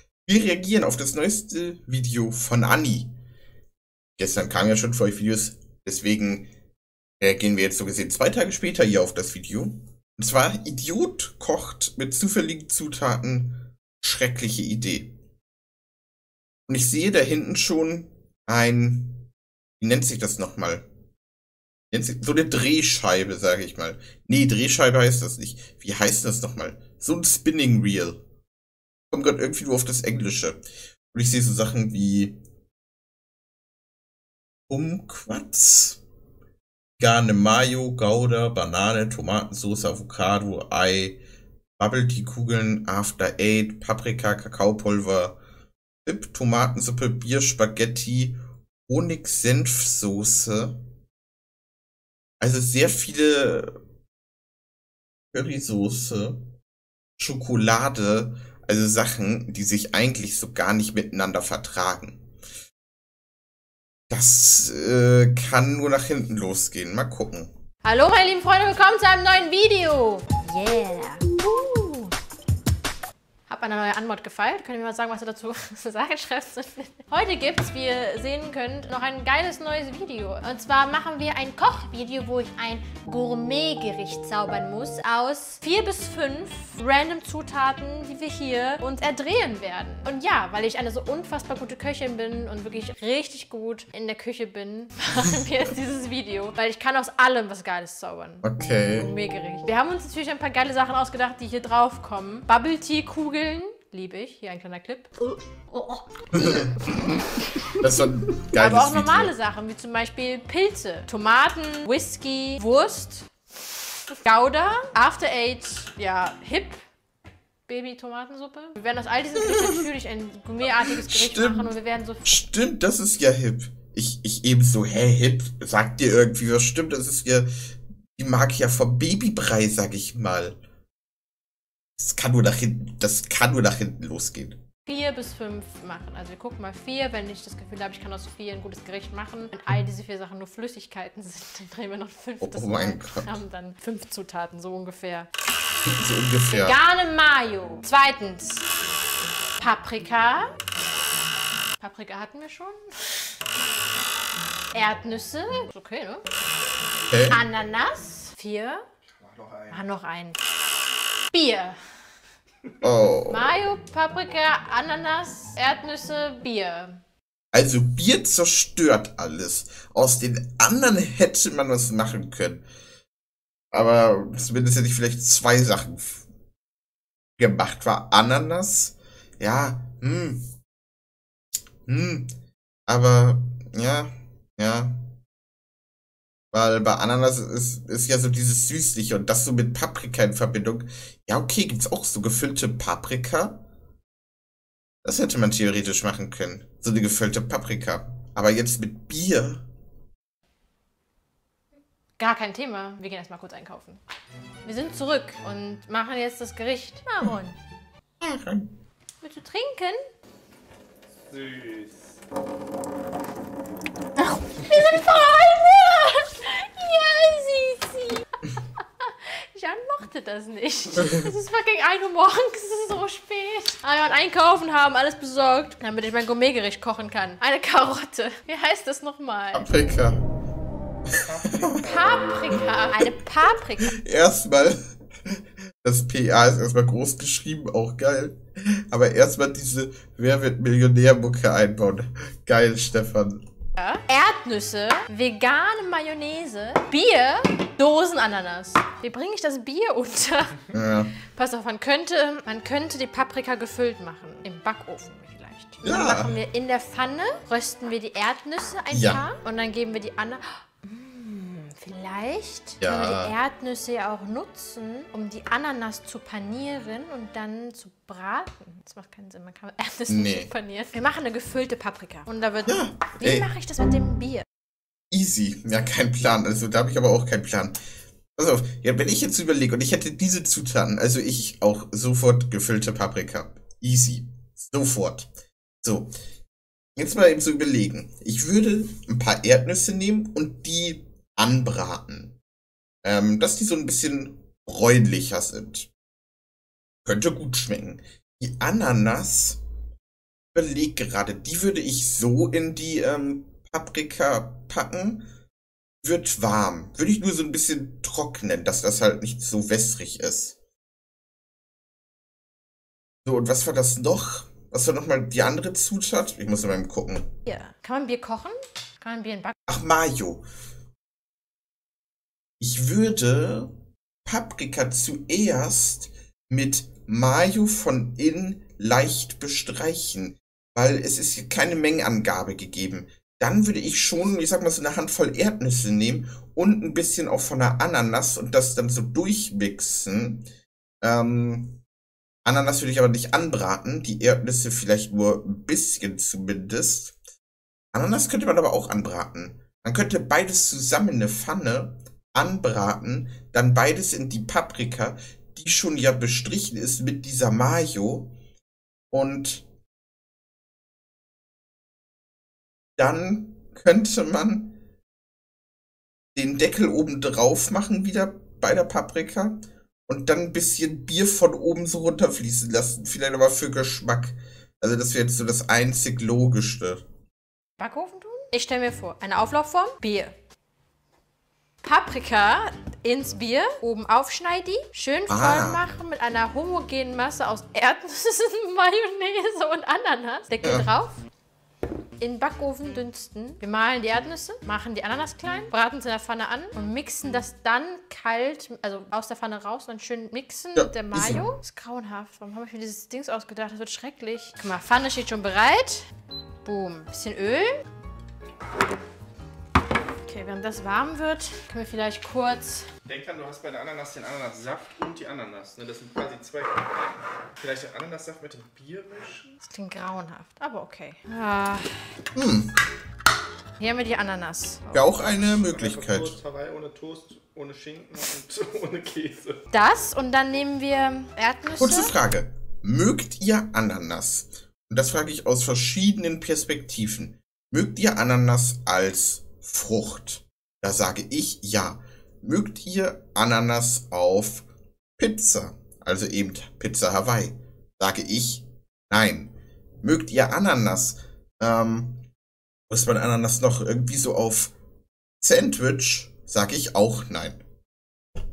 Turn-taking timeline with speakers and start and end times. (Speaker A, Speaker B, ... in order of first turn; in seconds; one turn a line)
Speaker A: 0.2-3.1
Speaker A: 4.2-6.5
Speaker A: 7.2-15.1
Speaker A: 16.7-19.2
Speaker A: 19.8-20.9
Speaker A: 21.9-28.2
Speaker A: 29.1-32.4
Speaker A: 34.7-36.0
Speaker A: 37.0-41.2
Speaker A: 41.8-45.4
Speaker A: 46.0-50.8
Speaker A: 52.4-53.7
Speaker A: 55.3-56.4
Speaker A: 57.2-62.2
Speaker A: 64.1-67.5
Speaker B: 67.8-72.1
Speaker B: 73.5-98.4
Speaker A: 98.4-99.1
Speaker B: 99.0-105.1
Speaker B: 105.7-107.7
Speaker A: 106.3-109.3
Speaker B: 108.5-113.3
Speaker B: 114.1-116.8
Speaker B: 117.7-122.4
Speaker A: 119.5-119.8
Speaker A: 120.9-127.5
Speaker A: 128.2-130.6
Speaker A: 132.0-134.6
Speaker B: 134.8-145.3
Speaker A: 142.4-143.3
Speaker A: 145.8-146.8
Speaker B: 146.5-148.7
Speaker B: 149.6-150.5
Speaker B: 151.8-153.3
Speaker B: 154.7-156.2
Speaker A: 157.1-157.4
Speaker B: 157.3-158.8
Speaker C: 159.1-159.8
Speaker B: 159.7-160.4
Speaker B: 161.3-161.8
Speaker A: 162.8-163.5
Speaker B: 163.3-167.0
Speaker A: 167.5-172.6
Speaker A: 173.7-176.2
Speaker A: 177.4-180.4
Speaker A: 181.9-182.3
Speaker A: 182.9-184.9
Speaker A: 186.5-193.6
Speaker A: 195.0-199.6
Speaker B: 202.2-204.0
Speaker B: 204.6-207.6
Speaker A: 208.2-208.7
Speaker B: 209.2-210.0
Speaker C: 211.2-212.1
Speaker B: 214.2-229.7
Speaker A: 229.5-230.2
Speaker A: 231.1-231.7
Speaker C: 231.3-231.9
Speaker B: 231.8-233.9
Speaker A: 233.9-243.4
Speaker B: 243.8-274.4
Speaker A: 250.7-251.1
Speaker A: 255.8-256.4
Speaker A: 258.9-259.2
Speaker A: 262.8-263.3
Speaker A: 270.1-270.5
Speaker A: 272.6-273.5
Speaker A: 275.1-277.7
Speaker A: 278.4-285.3
Speaker A: 285.8-286.1
Speaker A: 286.9-292.3
Speaker A: 293.0-295.9
Speaker A: 297.0-299.6
Speaker A: 300.5-305.2
Speaker A: 306.0-310.6
Speaker A: 313.2-317.3
Speaker B: 317.4-319.6
Speaker A: 319.7-320.4
Speaker A: 322.6-323.7
Speaker A: 324.2-340.4
Speaker A: 341.0-341.8
Speaker A: 342.4-347.2
Speaker A: 347.9-358.3
Speaker A: 359.1-359.6
Speaker A: 363.0-364.8
Speaker A: 366.3-369.6
Speaker A: 370.1-377.0
Speaker B: 377.8-380.4
Speaker B: 381.8-391.2
Speaker A: 385.3-385.8
Speaker B: 392.2-406.1
Speaker A: 400.8-401.4
Speaker B: 406.6-407.8
Speaker B: 410.3-412.9
Speaker C: 413.0-419.5
Speaker B: 419.6-422.1
Speaker A: 422.3-422.7
Speaker B: 423.8-425.0
Speaker A: 424.9-426.4
Speaker C: 425.2-429.6
Speaker B: 429.7-432.1
Speaker A: 431.8-444.6
Speaker A: 445.2-449.5
Speaker A: 450.0-452.2
Speaker A: 452.9-454.7
Speaker A: 455.4-457.6